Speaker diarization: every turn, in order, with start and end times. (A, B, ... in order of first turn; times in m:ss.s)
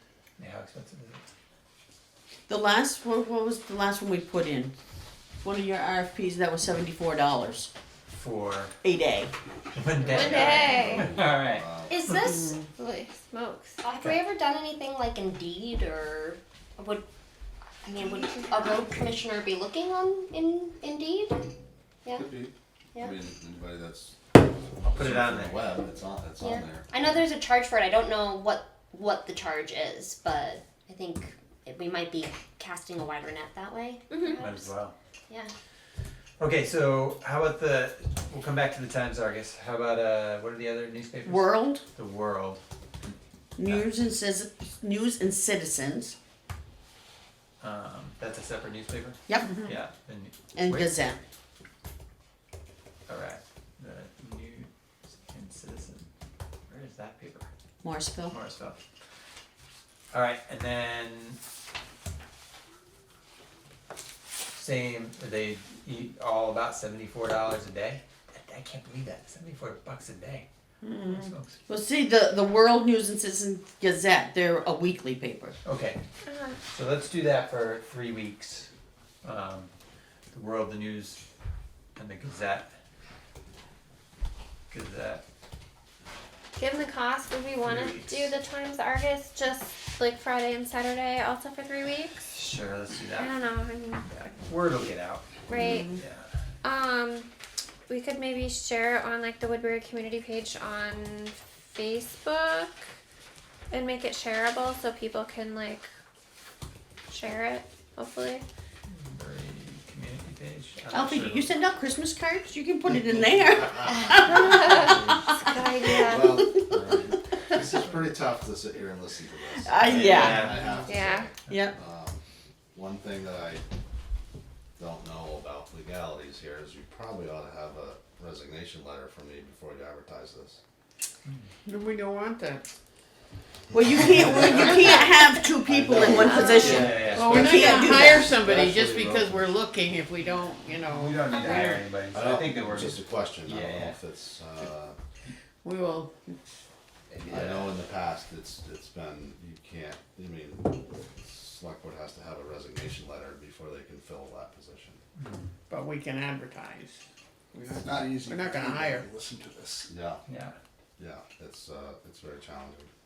0:00.4-0:01.3 A
0:02.5-0:04.7 B
0:05.4-0:07.7 B
0:08.1-0:08.7 A
0:08.8-0:09.3 B
0:09.7-0:12.1 A
0:10.1-0:11.1 C
0:10.1-0:12.0 D
0:11.9-0:12.5 E
0:12.7-0:13.8 C
0:13.8-0:17.0 E
0:17.8-0:21.5 E
0:18.0-0:18.8 C
0:22.1-0:24.2 D
0:24.8-0:27.3 D
0:24.8-0:25.6 A
0:26.4-0:34.7 E
0:34.3-0:34.9 A
0:36.4-0:42.6 A
0:41.2-0:41.8 B
0:43.6-0:46.2 B
0:43.6-0:43.9 A
0:47.6-0:50.9 A
0:49.3-0:49.6 B
0:50.5-0:51.2 B
0:53.1-0:56.1 A
0:56.7-0:57.5 A
0:57.8-0:58.3 B
0:58.3-0:58.8 A
1:00.1-1:01.4 A
1:04.5-1:10.4 A
1:10.8-1:11.3 F
1:11.0-1:11.6 A
1:11.7-1:15.6 B
1:15.6-1:16.0 A
1:16.2-1:16.6 C
1:16.7-1:18.7 A
1:19.2-1:19.7 A
1:20.3-1:21.2 A
1:22.0-1:22.7 A
1:24.7-1:25.2 A
1:26.6-1:32.2 C
1:27.6-1:28.3 A
1:32.3-1:33.4 A
1:33.2-1:34.1 C
1:34.0-1:35.3 A
1:35.5-1:35.9 C
1:35.9-1:36.3 A
1:36.6-1:37.3 C
1:37.9-1:42.8 C
1:43.7-1:45.9 C
1:47.1-1:48.4 C
1:48.9-1:51.5 A
1:50.9-1:57.1 B
1:53.5-1:54.9 D
1:54.1-1:56.5 C
1:54.9-1:55.2 A
1:55.9-2:02.2 D
1:56.7-1:57.1 A
1:59.6-2:00.5 B
1:59.8-2:00.9 A
2:00.8-2:01.3 C
2:01.5-2:01.7 B
2:02.7-2:03.6 D
2:04.8-2:10.6 D
2:11.6-2:12.6 F
2:13.7-2:18.4 B
2:14.4-2:15.1 D
2:15.7-2:19.5 D
2:16.0-2:17.9 A
2:17.2-2:21.8 F
2:20.8-2:24.0 A
2:22.1-2:25.0 D
2:25.6-2:26.4 F
2:27.2-2:27.5 A
2:27.2-2:35.0 D
2:35.2-2:35.5 A
2:35.7-2:37.0 F
2:37.6-2:39.8 G
2:37.8-2:38.2 D
2:38.3-2:39.0 F
2:39.9-2:40.2 D
2:40.3-2:40.5 A
2:41.0-2:42.9 D